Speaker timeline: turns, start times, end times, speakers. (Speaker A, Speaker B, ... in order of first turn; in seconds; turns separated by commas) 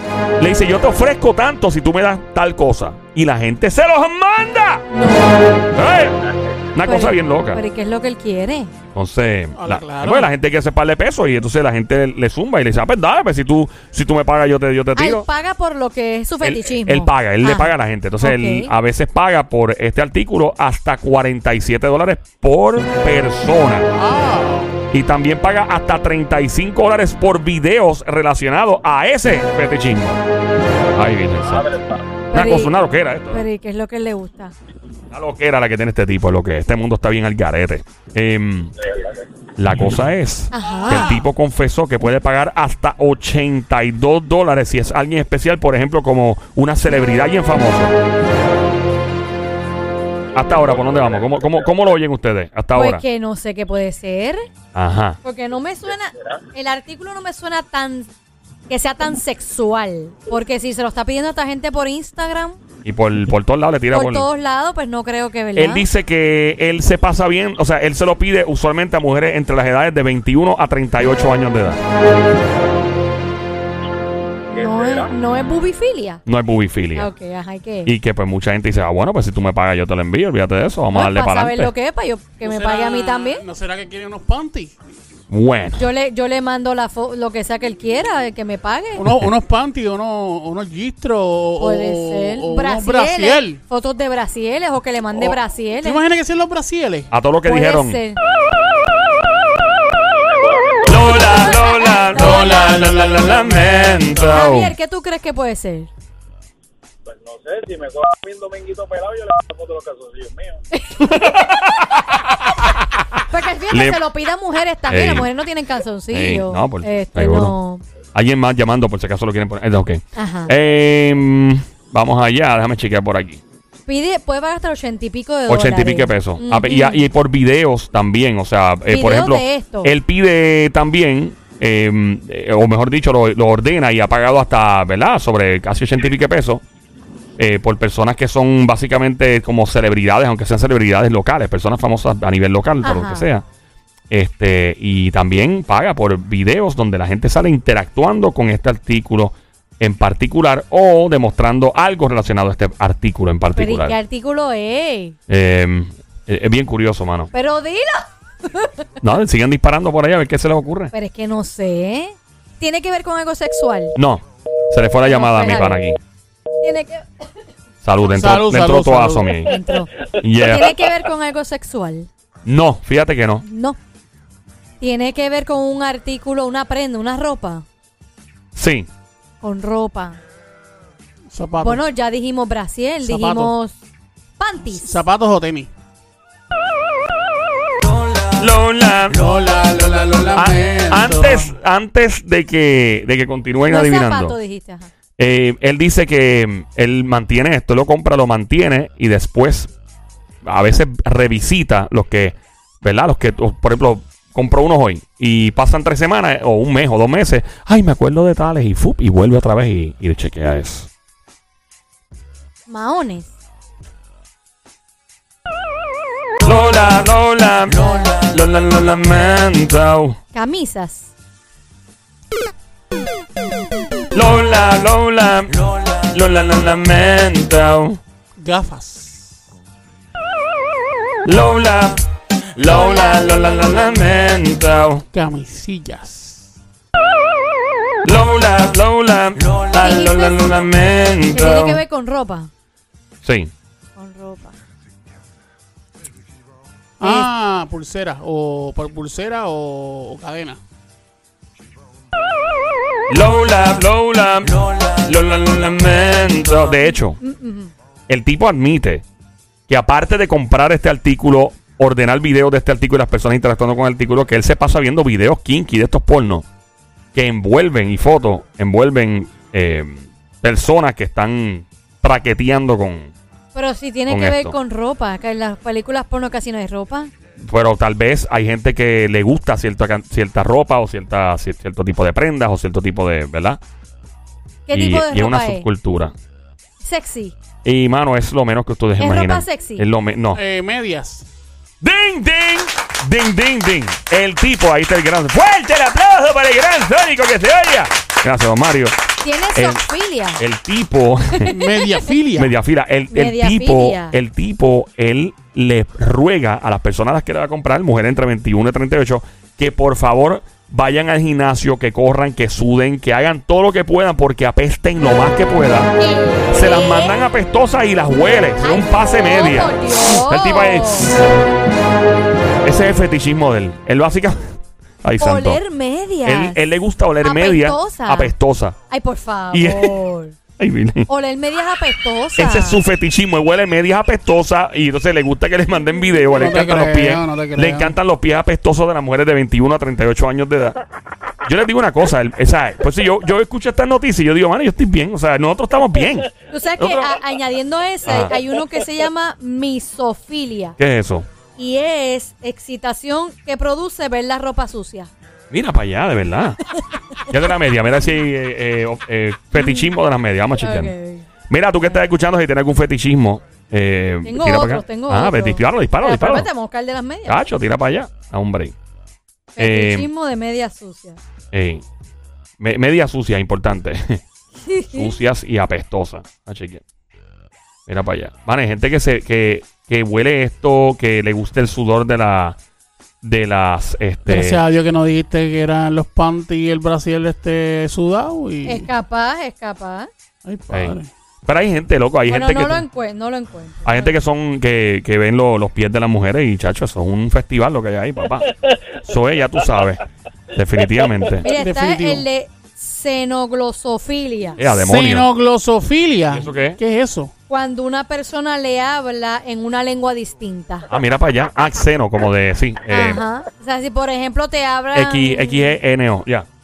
Speaker A: 0.4-4.9, Speaker B: 4.9-5.7, Speaker A: 5.7-7.6, Speaker B: 6.8-8.7, Speaker A: 8.9-15.2, Speaker C: 9.5-10.3, Speaker B: 14.9-18.7, Speaker A: 16.4-23.9, Speaker C: 23.9-24.8, Speaker A: 24.9-30.2, Speaker A: 30.9-31.8, Speaker D: 31.4-32.0, Speaker B: 32.3-32.7, Speaker A: 32.3-33.4, Speaker B: 33.3-34.5, Speaker A: 35.1-38.8, Speaker A: 39.6-48.0, Speaker B: 40.5-41.2, Speaker A: 50.3-53.0, Speaker D: 50.8-51.3, Speaker B: 52.7-54.4, Speaker A: 54.7-55.2, Speaker B: 55.2-58.1, Speaker B: 58.7-62.6, Speaker A: 62.8-64.3, Speaker B: 63.9-65.9, Speaker A: 65.5-71.8, Speaker D: 74.5-75.1, Speaker B: 74.5-76.2, Speaker A: 76.2-77.1, Speaker B: 76.9-77.9, Speaker A: 77.8-81.7, Speaker B: 80.9-83.4, Speaker C: 82.4-84.8, Speaker A: 85.3-85.9, Speaker B: 85.8-89.1, Speaker C: 89.0-93.6, Speaker B: 91.6-96.0, Speaker C: 95.1-97.1, Speaker A: 97.1-98.0, Speaker B: 97.4-98.2, Speaker D: 100.2-101.5, Speaker A: 100.9-104.7, Speaker B: 101.1-102.8, Speaker C: 102.4-103.2, Speaker B: 104.2-105.9, Speaker D: 107.1-110.6, Speaker B: 110.7-111.1, Speaker A: 111.0-112.9, Speaker B: 113.3-117.8, Speaker A: 113.7-114.0, Speaker A: 114.9-115.3, Speaker A: 116.1-117.5, Speaker A: 118.1-123.4, Speaker B: 120.2-120.5, Speaker B: 123.8-127.1, Speaker A: 125.5-136.6, Speaker B: 128.9-129.9, Speaker A: 137.4-143.4, Speaker B: 142.8-143.3, Speaker A: 144.1-154.0, Speaker B: 153.5-155.2, Speaker A: 155.3-157.3, Speaker B: 157.3-158.8, Speaker A: 159.0-160.9, Speaker B: 160.9-163.9, Speaker A: 163.9-166.0, Speaker B: 165.0-165.8, Speaker B: 166.6-167.0, Speaker A: 167.8-169.6, Speaker C: 168.1-169.3, Speaker B: 169.3-172.1, Speaker A: 170.2-170.8, Speaker A: 172.4-173.4, Speaker B: 173.4-173.8, Speaker B: 174.8-177.6, Speaker A: 178.5-178.9, Speaker B: 179.4-180.2, Speaker C: 181.3-181.8, Speaker B: 181.6-183.8, Speaker C: 183.0-183.5, Speaker B: 184.4-185.0, Speaker C: 184.7-185.7, Speaker A: 188.3-189.3, Speaker C: 189.2-191.5, Speaker A: 190.3-194.4, Speaker B: 193.7-194.9, Speaker A: 195.2-199.7, Speaker A: 200.4-210.9, Speaker B: 212.7-213.3, Speaker A: 216.4-220.2, Speaker B: 220.3-221.1, Speaker A: 224.1-228.0, Speaker C: 228.4-229.3, Speaker A: 231.2-232.0, Speaker A: 232.5-235.0, Speaker B: 232.7-233.9, Speaker C: 235.1-236.5, Speaker A: 238.0-241.8, Speaker B: 239.7-240.4, Speaker B: 241.3-242.5, Speaker A: 243.2-243.5, Speaker B: 243.9-244.5, Speaker C: 247.0-250.6, Speaker B: 247.0-247.3, Speaker A: 253.1-257.2, Speaker B: 256.7-257.7, Speaker A: 258.1-259.0, Speaker A: 259.7-266.4, Speaker A: 267.1-273.1, Speaker B: 273.5-277.1, Speaker A: 274.1-274.6, Speaker A: 277.4-283.6, Speaker B: 284.7-285.7, Speaker A: 284.7-286.1, Speaker B: 286.8-287.3, Speaker A: 287.6-290.4, Speaker B: 289.0-289.8, Speaker C: 290.3-291.3, Speaker A: 291.8-298.9, Speaker B: 299.2-300.4, Speaker A: 299.5-299.9, Speaker A: 300.4-301.5, Speaker B: 301.3-302.1, Speaker C: 301.4-302.5, Speaker A: 302.4-315.9, Speaker B: 303.1-304.2, Speaker B: 316.0-317.2, Speaker A: 316.5-321.2, Speaker B: 318.6-321.1, Speaker A: 322.6-324.4, Speaker A: 325.0-325.6, Speaker B: 325.2-326.6, Speaker A: 326.2-328.8, Speaker B: 327.2-328.3, Speaker B: 328.9-330.4, Speaker A: 329.5-329.9, Speaker A: 330.6-331.1, Speaker B: 331.1-332.8, Speaker A: 332.4-340.8, Speaker C: 336.3-337.9, Speaker A: 341.4-347.2, Speaker B: 346.5-350.8, Speaker A: 348.0-348.4, Speaker A: 350.8-351.3, Speaker B: 351.6-355.1, Speaker A: 355.5-356.6, Speaker A: 357.3-360.9, Speaker B: 359.5-359.9, Speaker B: 360.6-361.2, Speaker A: 361.5-366.5, Speaker B: 364.2-367.4, Speaker A: 367.2-368.7, Speaker B: 369.5-371.2, Speaker A: 369.6-370.1, Speaker A: 371.5-371.8, Speaker A: 372.6-374.2, Speaker B: 374.6-375.1, Speaker A: 374.9-376.8, Speaker A: 377.9-382.6, Speaker A: 383.2-384.6, Speaker C: 384.3-388.9, Speaker B: 388.6-390.1, Speaker C: 390.4-391.1, Speaker A: 390.7-392.9, Speaker B: 392.3-394.1, Speaker A: 393.8-401.5, Speaker B: 401.4-404.6, Speaker C: 401.4-402.2, Speaker A: 404.6-405.3, Speaker C: 404.7-407.3, Speaker A: 406.3-406.8, Speaker B: 407.5-410.9, Speaker A: 410.9-413.2, Speaker B: 412.9-415.8, Speaker A: 414.9-416.5